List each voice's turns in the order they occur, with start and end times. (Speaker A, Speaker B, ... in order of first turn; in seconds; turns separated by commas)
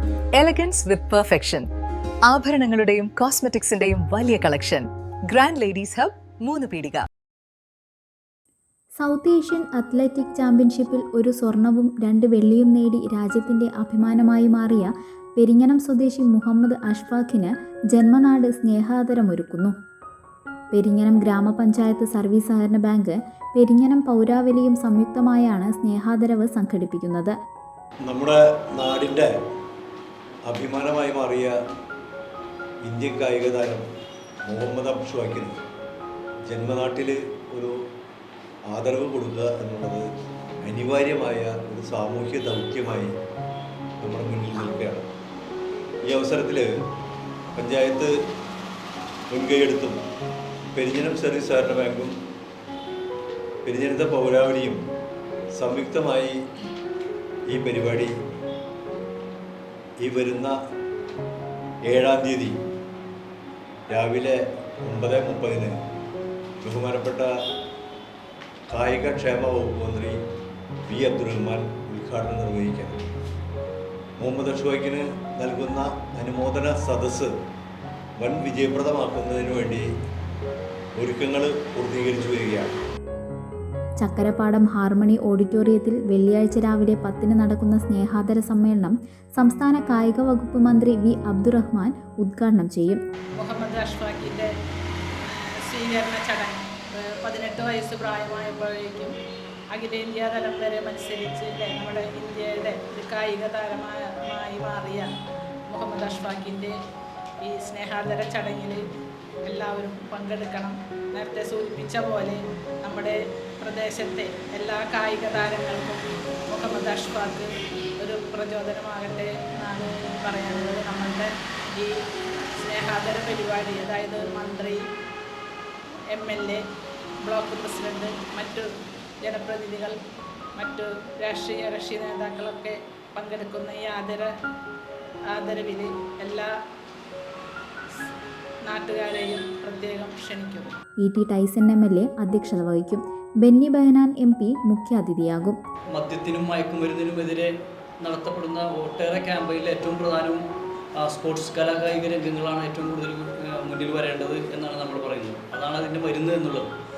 Speaker A: 0.4-1.6, Speaker A: 2.3-7.0, Speaker B: 9.0-19.7, Speaker B: 20.7-27.4, Speaker C: 28.1-29.3, Speaker C: 30.5-31.6, Speaker C: 32.8-33.8, Speaker C: 34.5-35.5, Speaker C: 36.5-37.7, Speaker C: 38.7-40.1, Speaker C: 40.6-43.1, Speaker C: 44.0-45.1, Speaker C: 46.1-46.7, Speaker C: 47.6-48.1, Speaker C: 49.3-50.0, Speaker C: 50.8-52.1, Speaker C: 53.6-54.8, Speaker C: 55.6-56.4, Speaker C: 57.5-58.1, Speaker C: 60.0-60.5, Speaker C: 61.9-62.5, Speaker C: 63.9-65.7, Speaker C: 66.6-67.3, Speaker C: 68.7-70.2, Speaker C: 70.9-73.0, Speaker C: 74.2-77.3, Speaker C: 78.2-79.9, Speaker C: 81.0-82.7, Speaker B: 84.0-93.0, Speaker D: 93.4-94.5, Speaker D: 95.2-96.6, Speaker D: 97.2-99.1, Speaker D: 99.7-105.1, Speaker D: 105.7-106.8, Speaker D: 107.4-108.8, Speaker D: 109.5-121.9, Speaker D: 122.6-124.8, Speaker D: 126.1-126.6, Speaker D: 127.2-128.7, Speaker D: 129.2-129.9, Speaker D: 130.6-134.3, Speaker D: 135.3-136.5, Speaker D: 138.7-140.7, Speaker B: 141.0-145.6, Speaker E: 145.9-147.5, Speaker E: 148.0-150.4, Speaker E: 151.0-156.7